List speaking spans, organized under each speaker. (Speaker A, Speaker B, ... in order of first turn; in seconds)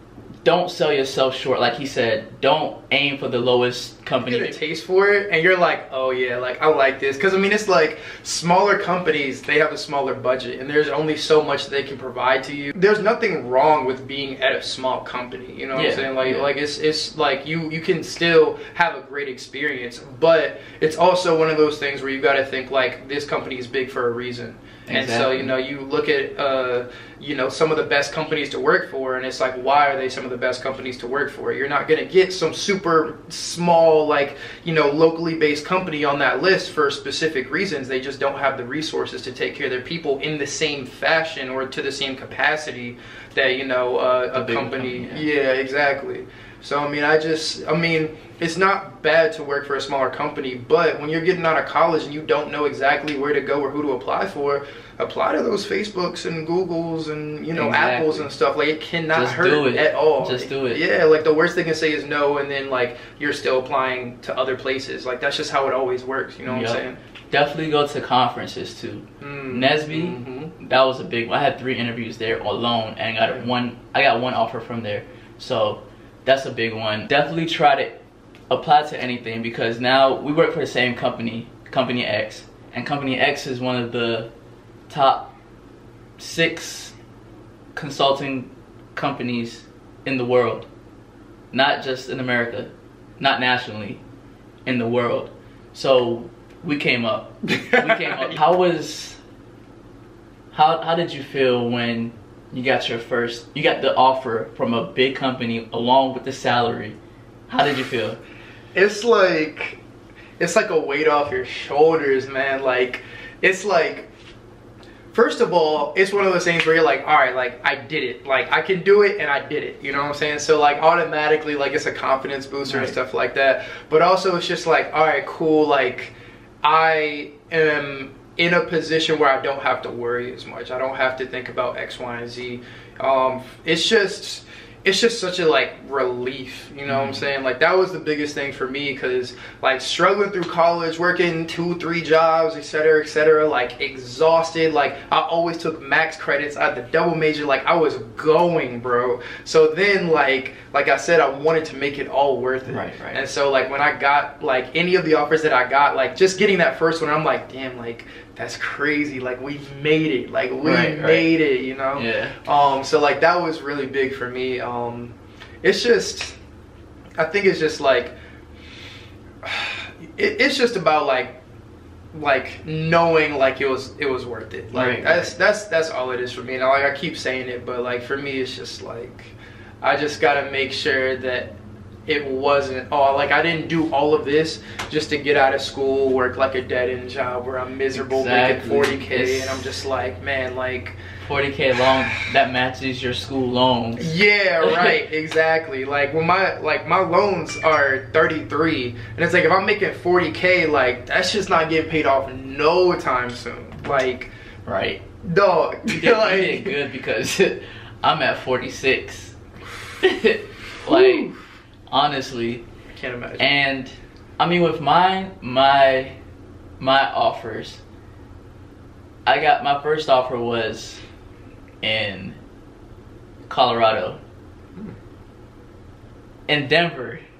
Speaker A: 0.4-4.6, 15.7-16.5, 24.9-25.5, 44.3-45.2, 57.5-58.3, 59.1-60.8, 66.4-84.3, 84.9-85.3, 86.2-86.9, 87.7-90.7, 91.5-94.0, 94.7-99.2, 100.5-107.0, 107.5-108.2, 122.7-123.0, 136.9-137.2, 152.7-153.2, 160.6-161.3, 161.9-162.4, 174.7-175.3, 187.9-189.7, 191.3-194.9, 204.6-205.0, 205.9-209.4, 210.0-211.3, 211.9-212.6, 213.4-216.2, 216.8-217.8, 219.2-221.0, 221.8-222.4, 223.5-224.2, 226.5-227.2
Speaker B: 4.2-67.0, 69.2-70.5, 97.6-98.3, 108.7-109.8, 110.4-114.1, 115.1-166.4, 167.2-168.1, 169.4-171.4, 172.1-181.5, 182.1-191.0, 194.0-204.3, 205.2-206.7, 210.8-211.4, 213.0-213.5